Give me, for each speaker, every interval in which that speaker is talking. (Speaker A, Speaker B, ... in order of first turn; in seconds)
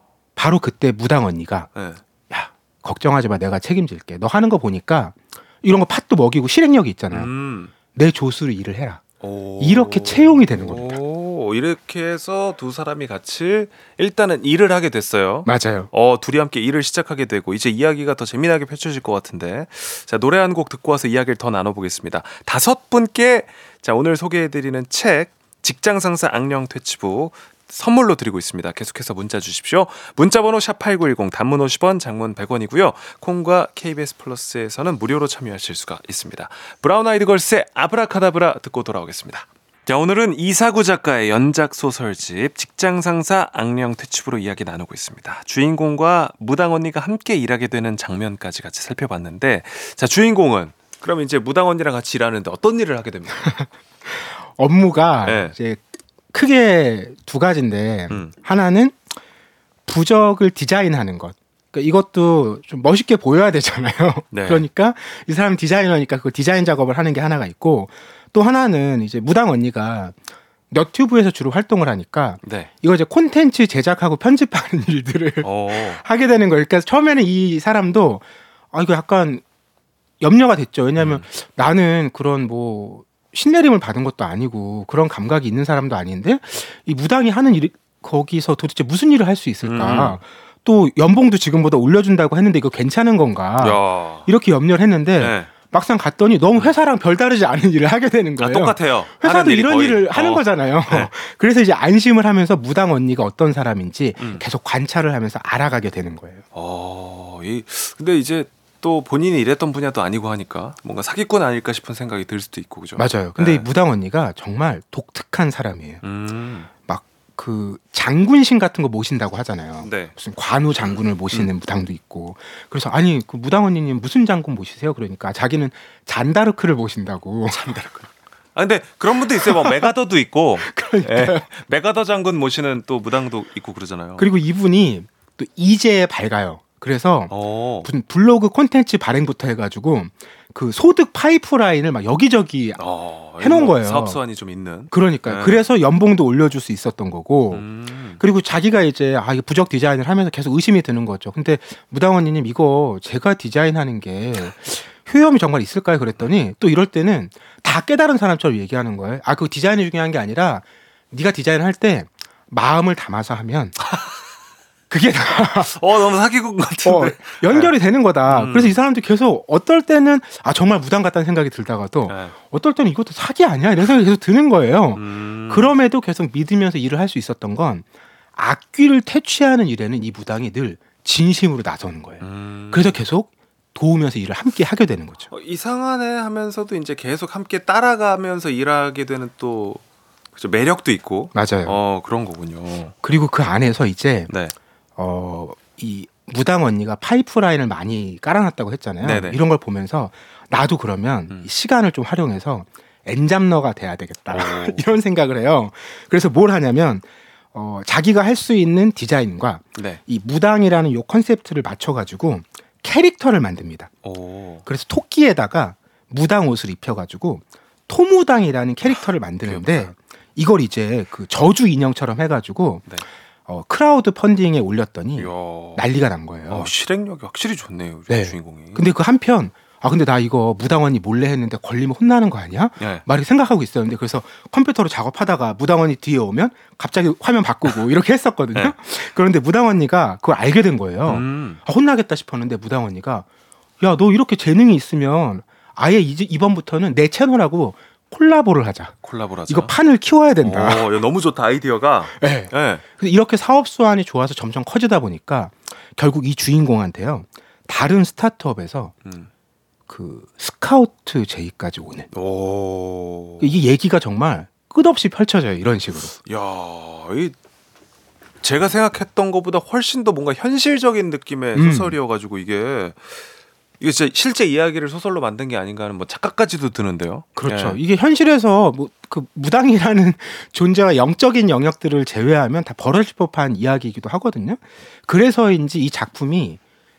Speaker A: 0.4-1.7, 2.3-7.3, 7.9-9.0, 9.6-11.0, 15.4-15.9, 53.4-55.8, 56.3-59.0, 59.9-70.2, 70.7-79.4, 80.2-106.4, 113.0-116.0, 116.9-127.9, 129.5-129.9, 130.6-131.4, 134.2-137.3, 137.8-142.8, 143.4-144.2, 144.9-147.7, 148.2-163.8, 164.9-165.8, 166.8-185.3, 191.3-191.8, 193.0-194.3, 195.0-213.9, 214.7-222.9, 223.5-226.7, 228.1-243.3, 243.8-248.9, 249.5-250.9, 252.2-259.0, 259.9-262.1, 263.4-266.1, 271.6-271.9, 277.4-286.6
Speaker B: 1.7-2.0, 7.1-7.7, 9.2-53.5, 55.2-55.5, 64.3-64.7, 72.4-72.7, 75.4-76.0, 81.0-81.3, 89.6-90.2, 93.6-94.3, 95.2-95.5, 98.4-101.1, 106.5-113.7, 116.0-116.7, 119.8-120.1, 120.8-121.5, 127.5-134.3, 137.3-137.9, 142.8-145.7, 147.5-148.2, 165.4-167.7, 168.3-168.8, 172.1-172.3, 174.9-175.7, 182.2-183.0, 185.3-189.8, 190.3-192.9, 194.3-194.6, 199.0-199.4, 204.3-204.9, 209.8-210.0, 214.0-214.6, 218.9-219.9, 225.2-225.8, 226.5-228.9, 232.8-233.1, 241.1-241.6, 249.0-249.7, 250.4-252.8, 259.1-259.3, 262.1-263.6, 266.3-267.4, 268.4-273.3, 273.8-277.8